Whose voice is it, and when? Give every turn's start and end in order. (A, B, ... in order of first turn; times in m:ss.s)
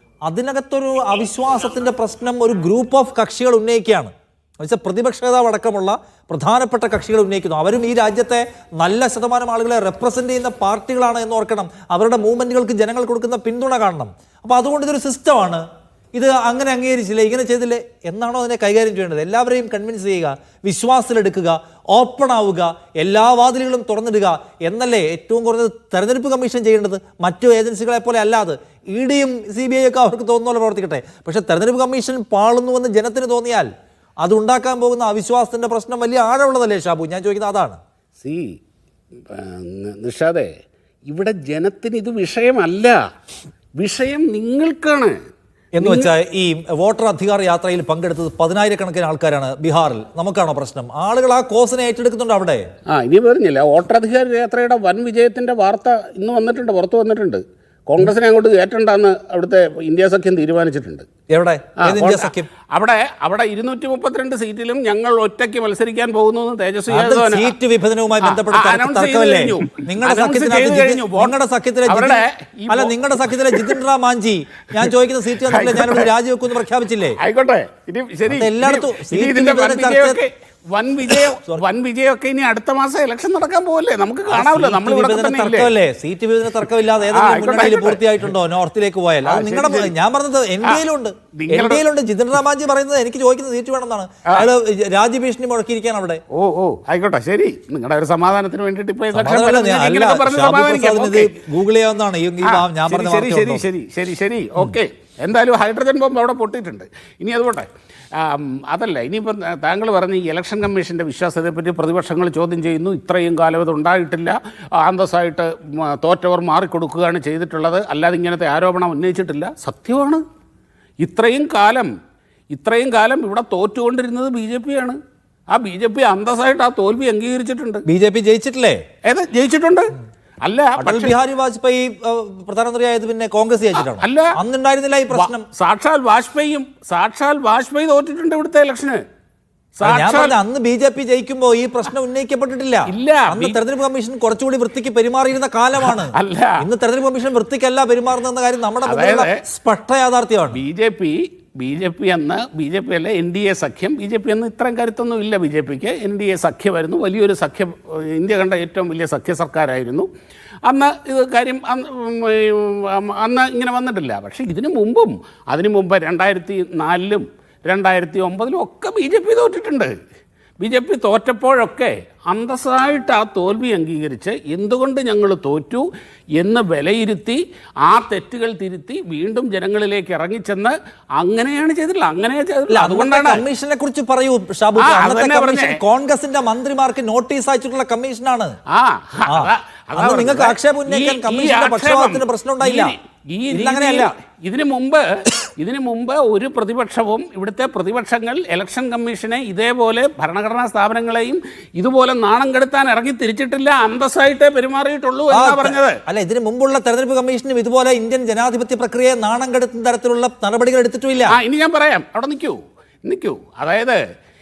0:00.3-0:33.7 A
0:34.2-0:37.8 A
0:38.2-0:38.6 B
0:39.3-0:40.5 B
0:41.1-0:43.0 B
0:43.8-0:45.2 B
0:45.8-0:52.6 A
0:45.8-0:46.1 B
0:52.9-1:01.1 B
1:01.3-1:02.5 A
1:01.8-1:07.5 B
1:06.9-1:17.2 A
1:08.2-1:11.4 B
1:11.9-1:13.8 B
1:15.4-1:16.1 B
1:17.2-1:25.7 B
1:18.3-1:20.2 A
1:24.3-1:36.2 A
1:27.1-1:28.1 B
1:29.2-1:29.9 B
1:31.4-1:31.8 B
1:36.3-1:41.4 B
1:39.1-1:43.6 A
1:42.4-2:00.2 B
2:01.0-2:01.9 B
2:02.5-2:05.0 B
2:05.5-2:07.8 B
2:07.9-2:08.8 A
2:09.0-2:09.9 B
2:10.4-2:11.2 B
2:10.8-2:15.5 A
2:13.8-2:14.3 B
2:15.1-2:19.0 B
2:19.8-2:20.4 B
2:19.8-2:30.6 A
2:22.9-2:23.6 B
2:25.8-2:26.6 B
2:28.9-2:29.4 B
2:30.5-2:40.1 B
2:40.6-2:49.9 B
2:50.6-3:03.5 B
3:02.7-3:08.6 A
3:04.8-3:05.8 B
3:08.7-3:26.0 B
3:09.3-3:13.0 A
3:13.5-3:14.1 A
3:25.3-3:31.4 A
3:31.3-3:34.0 B